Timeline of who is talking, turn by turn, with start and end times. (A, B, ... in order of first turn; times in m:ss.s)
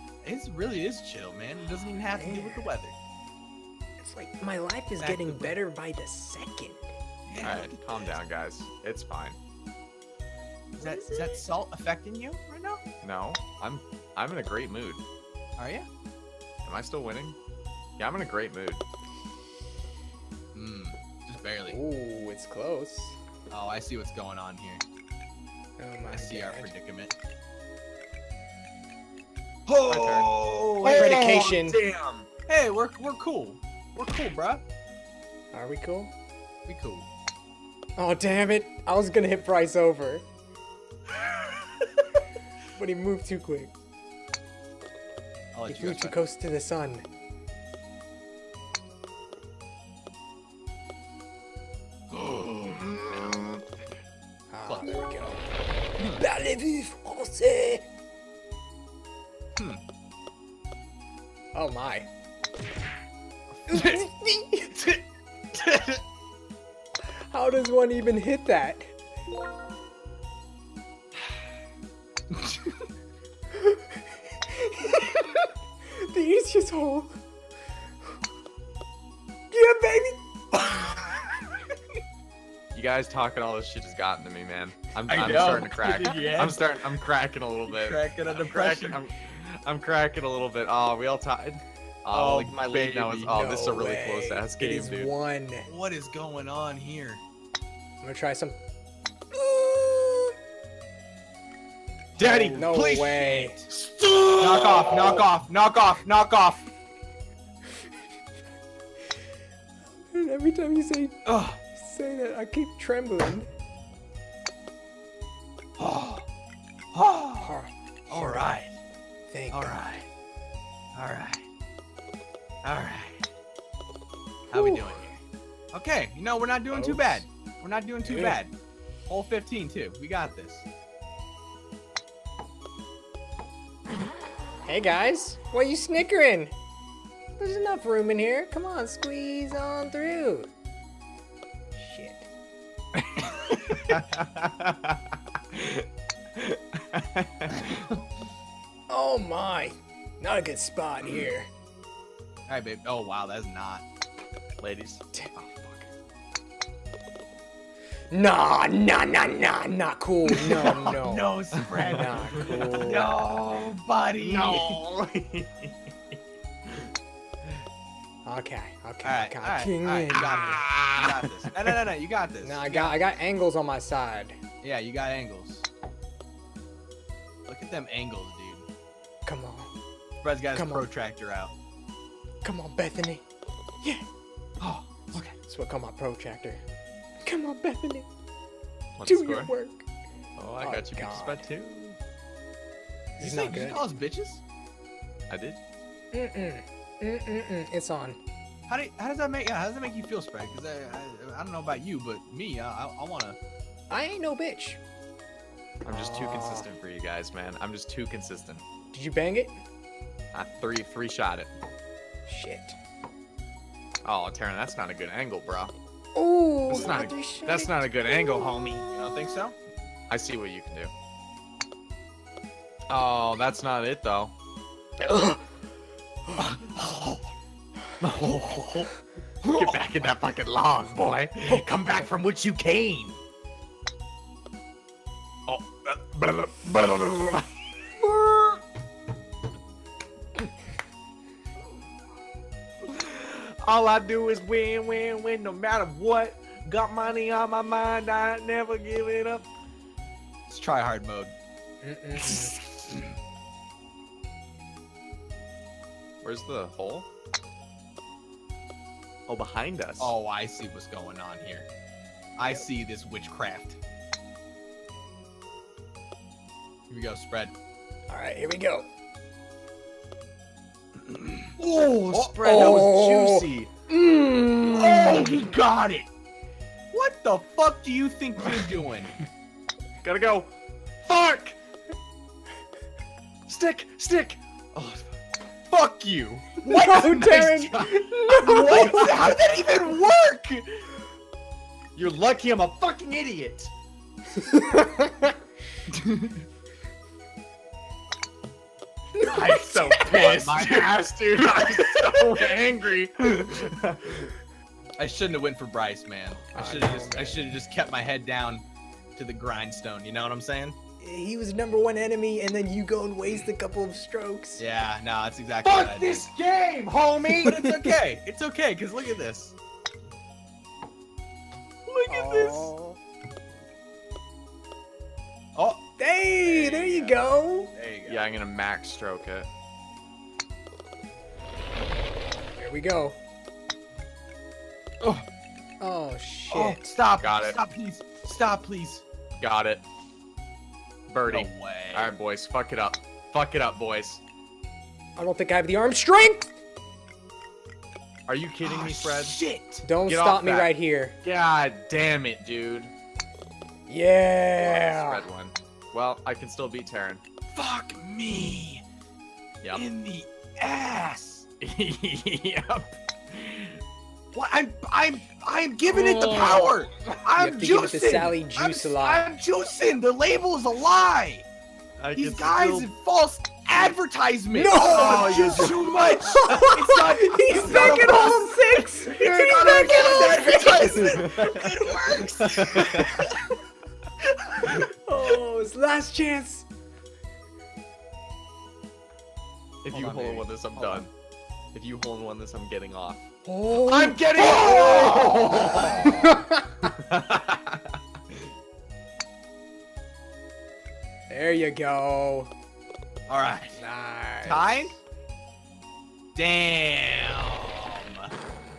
0:00.2-0:02.9 A
0:02.1-0:02.7 B
0:04.0-0:06.8 B
0:05.0-0:05.6 A
0:07.3-0:08.2 A
0:07.4-0:09.4 C
0:10.8-0:11.4 B
0:10.8-0:12.8 A
0:13.0-0:15.0 C
0:15.6-0:15.9 A
0:16.6-0:17.4 C
0:18.0-0:18.8 C
0:20.5-0:21.8 A
0:21.7-0:23.2 B
0:23.5-0:24.8 A
0:25.8-0:26.7 B
0:26.1-0:27.1 A
0:29.7-0:32.3 C
0:29.7-0:31.2 A
0:30.8-0:31.8 B
0:32.5-0:34.6 A
0:35.5-0:36.1 B
0:36.6-0:37.0 A
0:38.0-0:40.3 B
0:42.7-0:43.7 B
0:45.5-0:46.2 A
0:45.7-0:47.0 B
0:52.1-0:53.3 A
0:54.5-0:55.5 B
0:54.7-0:54.9 A
0:56.0-0:56.2 A
0:56.0-0:57.8 B
1:01.5-1:02.1 B
1:03.6-1:04.0 A
1:03.7-1:05.0 B
1:05.5-1:06.0 A
1:07.3-1:08.9 B
1:12.3-1:12.8 A
1:13.5-1:15.5 B
1:16.0-1:17.2 B
1:19.5-1:20.2 B
1:22.7-1:35.1 C
1:25.1-1:26.6 A
1:27.7-1:29.0 A
1:32.1-1:33.6 A
1:33.3-1:35.7 B
1:35.7-1:37.2 A
1:38.0-1:38.6 B
1:39.3-1:40.4 B
1:42.2-1:43.7 A
1:42.2-1:45.3 C
1:42.5-1:43.6 B
1:44.4-1:46.6 A
1:50.0-1:53.5 B
1:51.2-1:51.6 A
1:55.8-1:56.2 A
1:56.9-1:57.5 A
1:57.4-1:58.6 B
1:58.1-1:58.8 A
1:59.3-1:59.8 B
1:59.5-2:00.1 A
2:00.9-2:01.5 A
2:02.6-2:03.2 A
2:04.5-2:05.1 A
2:04.5-2:05.2 B
2:05.7-2:08.5 A
2:06.7-2:07.2 B
2:08.0-2:08.4 B
2:09.1-2:10.6 A
2:14.6-2:16.5 B
2:17.4-2:20.5 B
2:21.7-2:22.3 B
2:23.2-2:24.9 C
2:25.5-2:25.8 C
2:26.4-2:27.8 C
2:28.9-2:31.5 B
2:31.0-2:31.3 A
2:32.5-2:33.8 A
2:34.6-2:35.9 C
2:38.1-2:41.3 B
2:40.4-2:44.8 A
2:41.8-2:43.2 B
2:44.2-2:45.7 C
2:48.2-2:50.6 B
2:49.0-2:53.0 A
2:50.6-2:51.2 C
2:52.4-2:54.4 B
2:54.6-2:55.7 A
2:57.5-2:58.6 A
2:59.2-2:59.7 B
3:00.2-3:01.5 A
3:00.5-3:00.9 B
3:02.4-3:03.2 B
3:04.6-3:05.4 A
3:05.4-3:06.6 B
3:07.2-3:08.1 B
3:09.0-3:09.5 C
3:09.0-3:09.8 B
3:10.4-3:12.0 C
3:10.6-3:11.5 B
3:13.2-3:14.4 A
3:13.2-3:13.8 B
3:15.3-3:15.6 C
3:16.1-3:18.2 B
3:18.7-3:23.4 A
3:23.9-3:24.8 B
3:25.8-3:28.6 C
3:25.8-3:26.7 B
3:28.9-3:29.6 B
3:30.3-3:31.5 C
3:32.2-3:32.8 B
3:34.0-3:35.7 C
3:36.1-3:39.4 B
3:36.7-3:38.9 C
3:38.8-3:39.5 A
3:40.1-3:40.9 C
3:42.9-3:44.3 C
3:46.4-3:47.2 C
3:48.0-3:48.9 C
3:49.4-3:49.8 A
3:49.4-3:53.2 C
3:55.5-3:57.5 C
3:58.1-3:58.6 B
4:02.9-4:09.5 C
4:10.5-4:11.3 A
4:11.8-4:12.5 B
4:12.2-4:13.1 A
4:16.2-4:17.1 C
4:19.3-4:20.1 C
4:20.0-4:21.7 A
4:22.4-4:23.8 A
4:26.9-4:27.5 A
4:28.1-4:28.9 B
4:31.6-4:33.7 C
4:32.1-4:32.8 A
4:32.4-4:35.4 B
4:34.7-4:36.1 A
4:36.9-4:39.1 A
4:40.0-4:40.5 C
4:41.0-4:41.6 C
4:43.5-4:45.1 C
4:45.7-4:46.6 C
4:46.6-4:50.4 A
4:46.6-4:49.3 B
4:47.7-4:50.8 C
4:52.0-4:53.7 C
4:54.4-4:55.3 B
4:55.9-4:56.4 A
4:59.2-5:00.2 B
4:59.2-5:01.0 A
4:59.2-5:04.3 C
5:05.0-5:08.6 A
5:06.5-5:07.5 B
5:09.2-5:10.8 A
5:11.0-5:14.6 B
5:14.6-5:16.3 A
5:15.6-5:17.6 C
5:17.3-5:19.5 A
5:17.4-5:17.9 B
5:21.9-5:22.7 A
5:22.1-5:23.0 B
5:25.6-5:25.8 A
5:26.0-5:27.7 B
5:26.4-5:28.3 A
5:28.0-5:29.5 C
5:32.5-5:33.2 B
5:35.8-5:37.0 B
5:36.5-5:39.0 A
5:37.2-5:37.6 C
5:39.4-5:39.8 C
5:41.1-5:44.2 C
5:41.2-5:42.1 A
5:45.2-5:46.6 B
5:48.3-5:49.4 C
5:48.6-5:49.8 A
5:49.8-5:51.2 B
5:50.0-5:52.9 C
5:53.9-5:55.3 B
5:54.6-5:57.2 C
5:57.5-5:58.8 A
5:59.7-6:01.5 A
6:01.6-6:03.8 C
6:04.3-6:11.4 A
6:06.0-6:06.8 C
6:07.4-6:09.3 B
6:12.0-6:12.9 C
6:12.1-6:23.1 A
6:14.5-6:21.4 B
6:14.6-6:16.5 C
6:19.9-6:20.2 C
6:20.9-6:23.3 C
6:22.8-6:23.1 B
6:24.6-6:26.6 B
6:29.8-6:31.1 C
6:29.9-6:31.1 A
6:31.7-6:33.2 C
6:33.4-6:36.9 B
6:33.9-6:36.1 A
6:34.3-6:36.2 C
6:37.1-6:37.8 C
6:41.3-6:42.5 B
6:43.3-6:43.8 A
6:43.8-6:44.9 B
6:44.4-6:45.0 A
6:46.3-6:48.3 A